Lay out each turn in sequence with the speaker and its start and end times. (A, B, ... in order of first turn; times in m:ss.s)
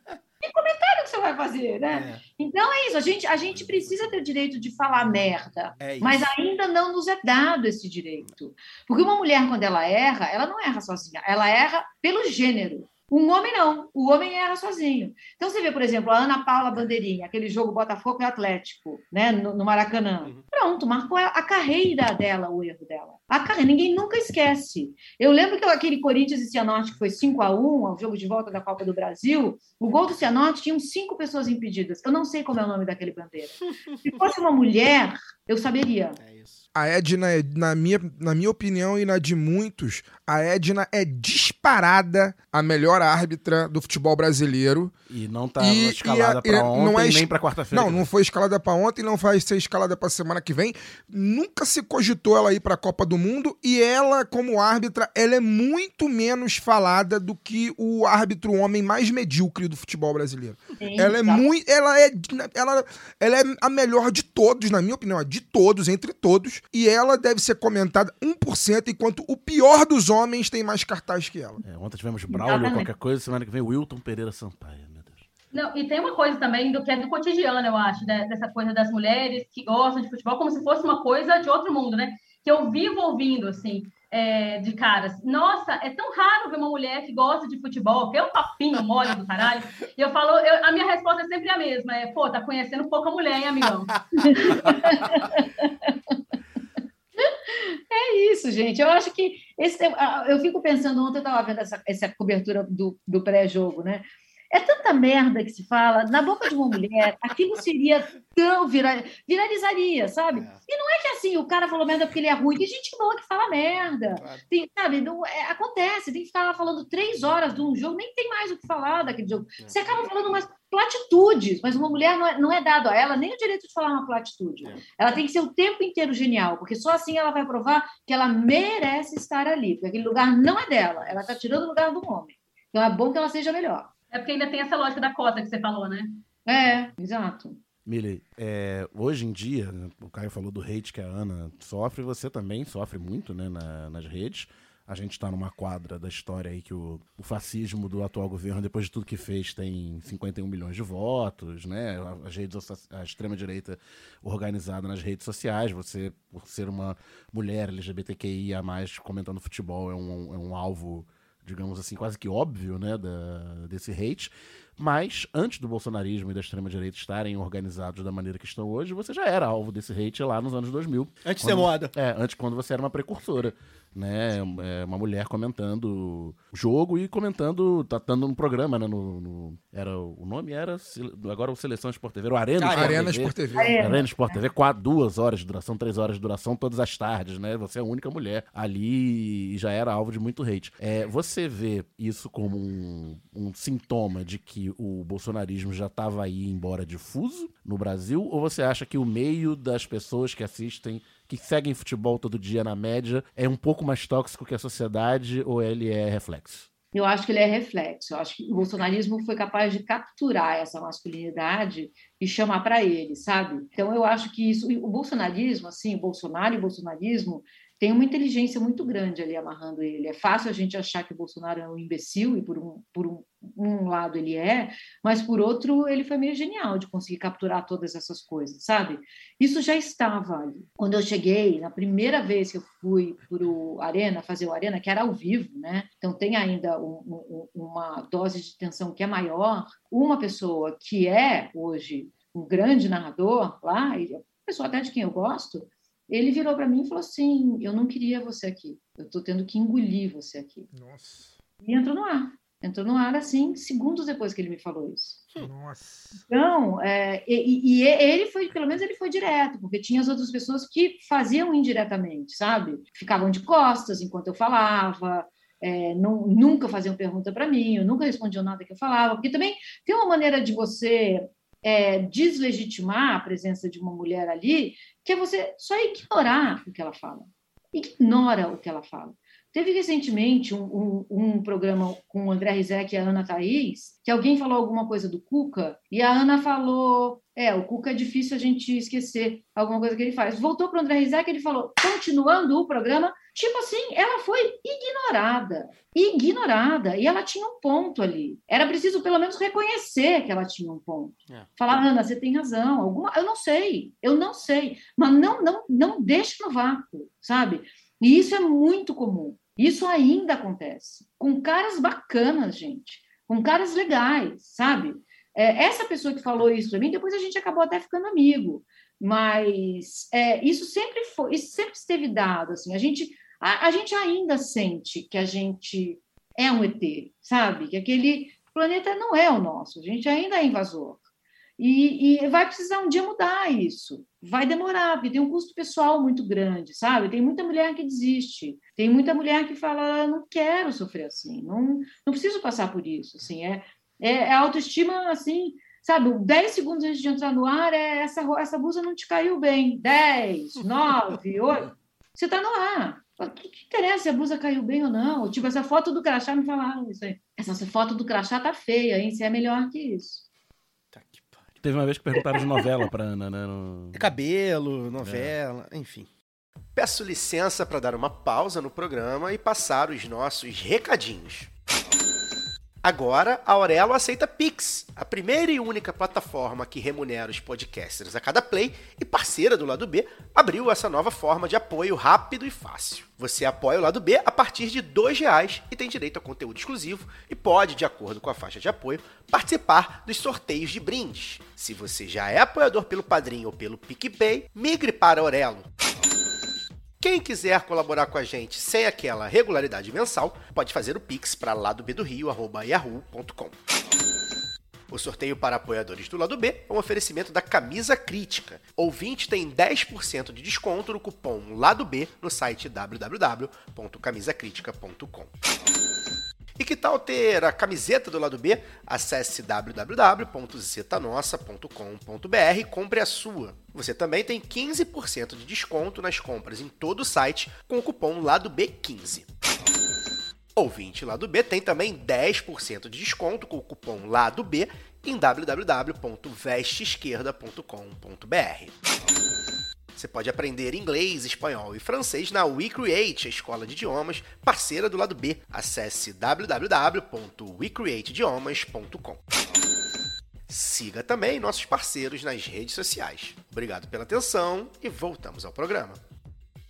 0:00.4-0:36.2 A
0:01.9-0:02.2 B
0:05.8-0:06.2 B
0:36.2-0:36.6 B
0:36.7-0:44.9 C
0:45.1-0:48.0 D
0:45.6-1:11.6 C
1:00.8-1:01.4 A
1:11.6-1:15.2 D
1:12.3-1:12.9 A
1:15.5-1:34.8 E
1:34.2-1:36.2 A
1:34.3-1:35.2 B
1:37.2-2:13.9 A
1:50.3-1:50.6 B
2:14.1-2:16.2 E
2:16.5-2:17.6 A
2:17.8-3:26.7 D
2:51.2-2:51.9 B
3:02.6-3:03.1 B
3:02.7-3:03.8 C
3:03.6-3:04.4 A
3:26.9-4:10.7 A
4:10.7-4:11.4 C
4:11.6-4:15.2 A
4:15.4-4:16.2 C
4:16.3-5:31.0 A
5:31.6-6:00.2 A
6:00.9-6:01.6 B
6:01.6-6:04.1 D
6:03.9-6:06.1 B
6:05.0-6:05.3 D
6:06.7-6:11.5 B
6:12.8-6:35.7 B
6:37.0-6:43.6 B
6:44.9-6:55.3 B
6:56.6-7:09.3 B
7:10.6-7:18.7 B
7:19.9-7:29.2 B
7:30.5-7:36.0 B